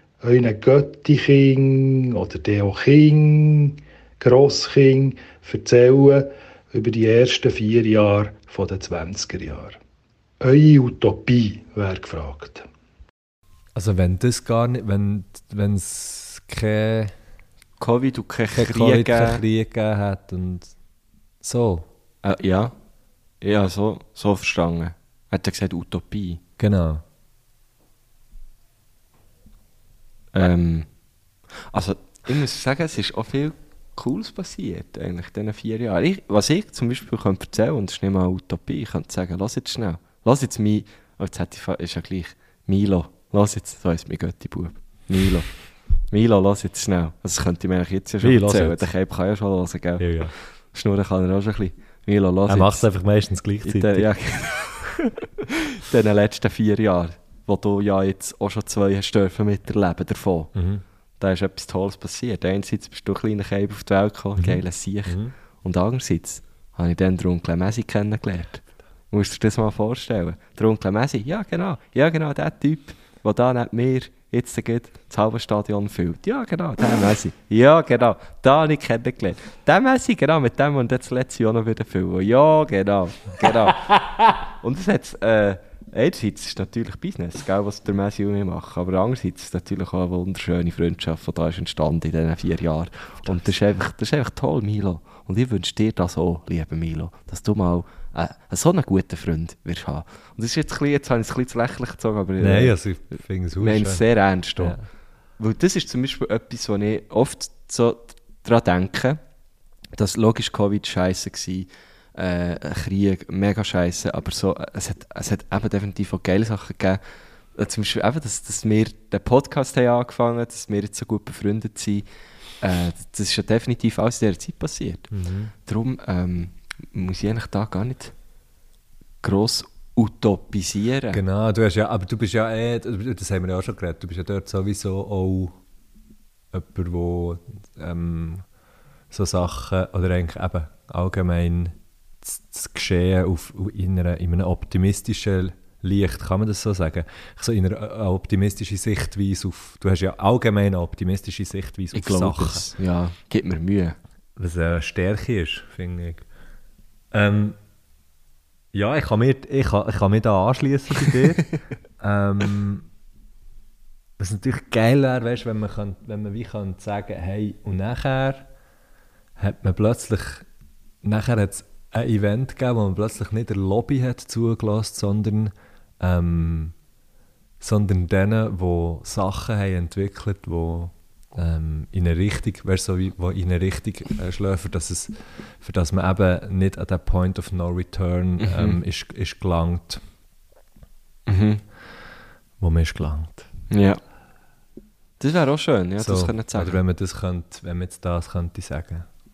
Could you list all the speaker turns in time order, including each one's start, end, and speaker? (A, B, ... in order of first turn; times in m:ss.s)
0:00.2-0:09.8 A
0:10.4-0:12.6 A
0:13.8-0:17.1 B
0:17.8-0:19.4 C
0:18.5-0:20.7 B
0:21.4-0:21.9 B
0:22.2-0:22.7 C
0:23.4-0:26.4 C
0:26.6-0:27.0 B
0:30.3-0:30.9 C
0:31.7-0:45.5 C
0:46.1-0:52.9 C
0:48.2-0:48.9 B
0:50.0-0:50.3 B
0:52.5-0:54.1 B
0:53.6-1:00.5 C
1:00.5-1:00.8 B
1:01.2-1:24.0 C
1:04.4-1:05.3 B
1:24.5-1:42.8 C
1:42.4-1:44.0 B
1:43.6-1:44.8 C
1:44.6-1:44.8 B
1:45.4-1:49.2 C
1:50.0-1:57.0 C
1:57.5-2:02.0 C
2:02.6-2:05.1 C
2:05.1-2:05.5 B
2:05.6-2:08.1 C
2:09.2-2:11.2 C
2:11.1-2:15.6 B
2:16.5-2:18.4 B
2:19.1-2:32.7 B
2:31.9-2:34.0 C
2:34.4-2:36.2 B
2:37.1-2:37.6 B
2:38.7-2:42.8 B
2:44.2-2:48.5 B
2:49.4-2:50.4 B
2:51.0-2:56.7 B
2:57.6-3:10.0 B
3:08.4-3:08.8 C
3:11.3-3:11.6 C
3:12.6-3:13.5 B
3:13.7-3:14.0 C
3:15.2-3:16.8 C
3:16.0-3:19.0 B